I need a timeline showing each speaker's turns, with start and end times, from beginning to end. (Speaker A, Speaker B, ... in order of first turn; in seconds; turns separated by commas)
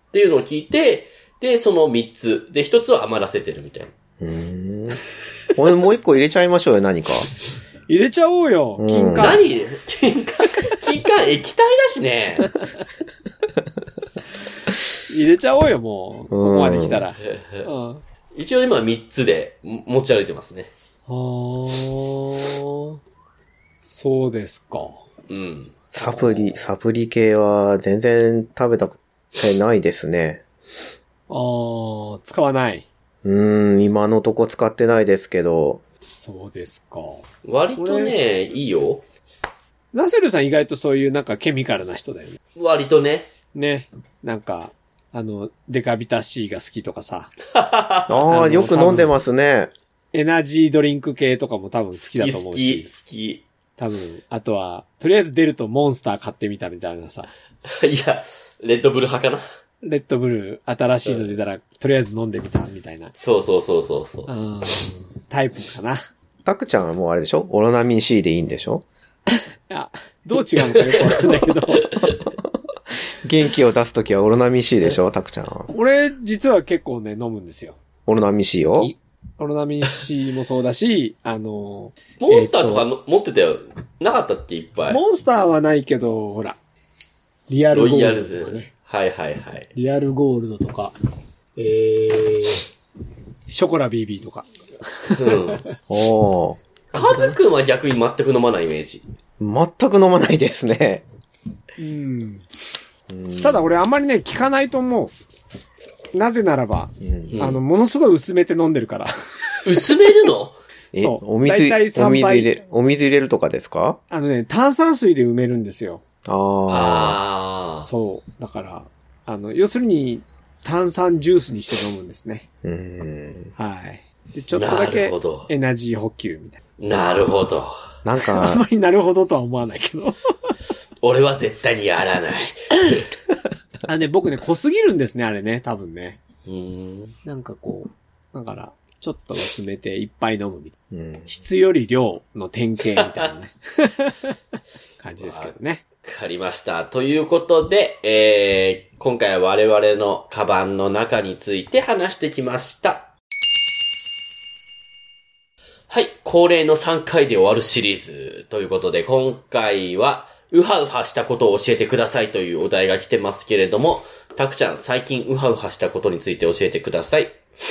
Speaker A: 0.1-3.9, Speaker B: 4.2-5.0, Speaker B: 5.5-7.3, Speaker C: 7.9-9.4, Speaker B: 8.8-9.4, Speaker A: 9.2-12.6, Speaker C: 15.1-18.0, Speaker B: 16.3-17.0, Speaker A: 17.2-17.7, Speaker A: 18.3-20.7, Speaker C: 21.1-22.9, Speaker C: 23.8-25.0, Speaker A: 25.3-25.8, Speaker B: 25.9-30.4, Speaker C: 26.0-26.3, Speaker C: 31.3-32.9, Speaker B: 33.2-35.8, Speaker C: 36.1-37.3, Speaker A: 37.4-39.0, Speaker C: 37.8-38.1, Speaker C: 39.9-42.4, Speaker A: 42.6-43.3, Speaker C: 43.5-47.3, Speaker A: 47.5-48.2, Speaker B: 48.1-49.7, Speaker C: 48.3-49.1, Speaker C: 50.1-52.9, Speaker A: 52.0-53.4, Speaker C: 53.8-57.3, Speaker A: 57.7-59.5, Speaker C: 59.8-63.1, Speaker A: 63.2-64.3, Speaker C: 64.3-66.0, Speaker B: 66.5-68.8, Speaker C: 69.7-71.9, Speaker A: 70.8-71.2, Speaker A: 71.8-72.1, Speaker B: 73.2-75.7, Speaker C: 75.7-77.8, Speaker B: 78.1-78.9, Speaker C: 79.4-82.9, Speaker A: 82.2-85.0, Speaker C: 84.9-86.6, Speaker C: 87.5-88.7, Speaker A: 87.7-89.7, Speaker C: 89.8-91.0, Speaker C: 91.6-92.6, Speaker C: 93.5-95.7, Speaker A: 95.2-95.6, Speaker B: 95.9-96.6, Speaker A: 96.9-99.0, Speaker C: 97.0-97.3, Speaker B: 99.4-101.0, Speaker C: 101.8-102.5, Speaker B: 103.1-103.7, Speaker C: 103.4-105.1, Speaker C: 106.1-109.1, Speaker B: 107.0-107.3, Speaker A: 107.3-107.6, Speaker A: 109.7-110.6, Speaker B: 110.9-114.0, Speaker C: 111.0-112.5, Speaker C: 114.1-116.0, Speaker B: 116.2-117.2, Speaker A: 116.7-117.9, Speaker C: 117.8-122.5, Speaker B: 122.6-123.5, Speaker C: 123.6-126.6, Speaker A: 124.5-125.5, Speaker A: 126.8-127.7, Speaker B: 128.0-128.6, Speaker C: 128.2-130.5, Speaker A: 131.0-133.1, Speaker C: 133.9-136.2, Speaker A: 136.5-137.2, Speaker C: 137.2-140.7, Speaker B: 140.9-141.3, Speaker C: 141.3-144.4, Speaker C: 145.0-145.8, Speaker A: 145.2-153.1, Speaker A: 155.9-167.4